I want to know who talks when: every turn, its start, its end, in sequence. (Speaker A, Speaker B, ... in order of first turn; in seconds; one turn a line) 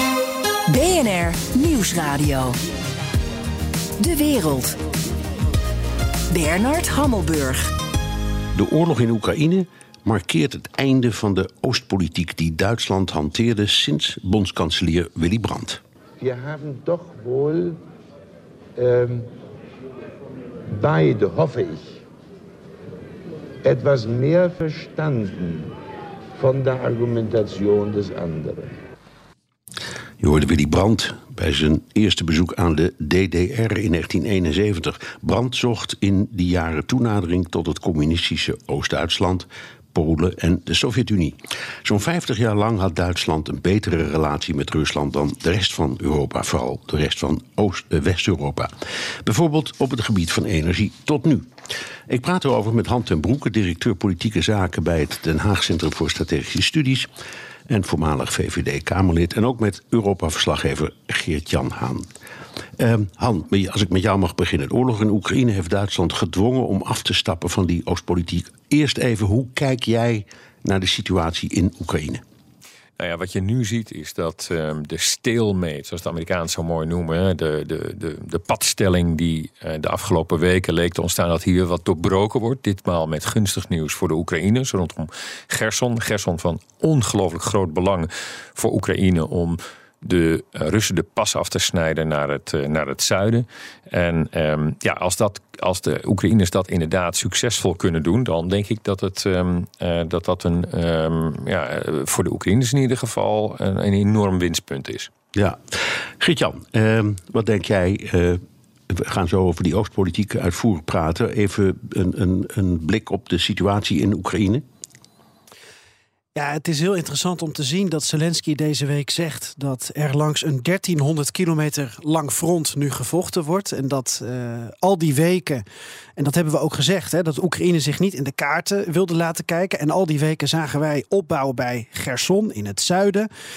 Speaker A: 0.7-2.5
Speaker A: 4.0-4.8
Speaker A: 6.3-7.7
Speaker B: 8.5-15.8
Speaker C: 16.2-17.8
Speaker C: 18.8-19.3
Speaker C: 20.7-22.0
Speaker C: 23.6-25.7
Speaker C: 26.4-28.8
Speaker B: 30.2-48.7
Speaker B: 49.2-51.5
Speaker B: 52.1-57.1
Speaker B: 57.7-62.1
Speaker B: 62.8-72.2
Speaker D: 73.0-105.1
Speaker B: 105.3-114.6
Speaker E: 116.3-125.6
Speaker E: 126.2-133.3